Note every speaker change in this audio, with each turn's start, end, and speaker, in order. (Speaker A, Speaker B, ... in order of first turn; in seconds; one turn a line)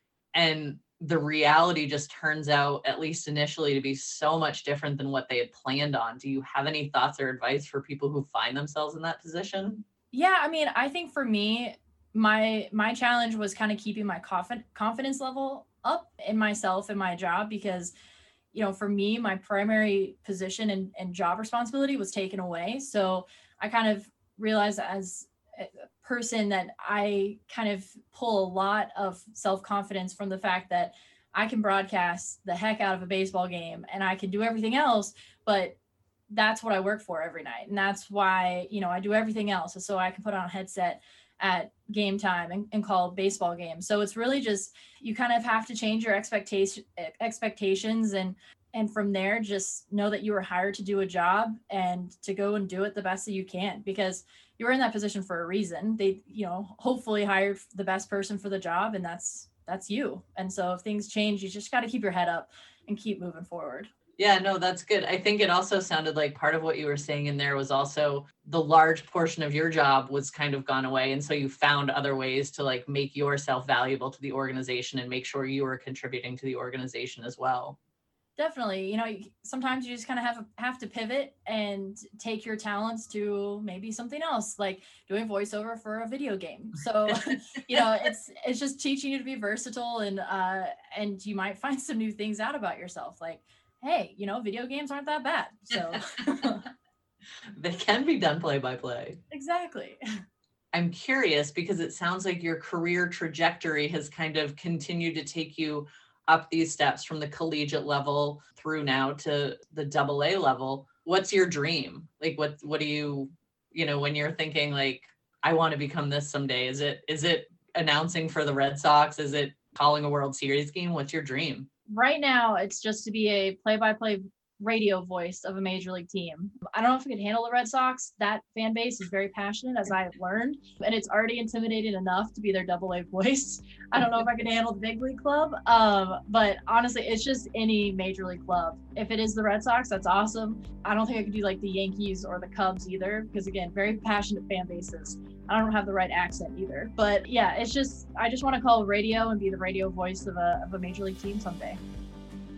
Speaker A: 0.3-9.8
Speaker B: 10.1-17.9
Speaker B: 18.5-35.8
Speaker B: 36.3-63.9
Speaker A: 64.2-77.8
Speaker B: 78.4-96.7
Speaker A: 97.5-99.2
Speaker B: 99.3-100.0
Speaker A: 100.7-121.7
Speaker B: 121.9-151.8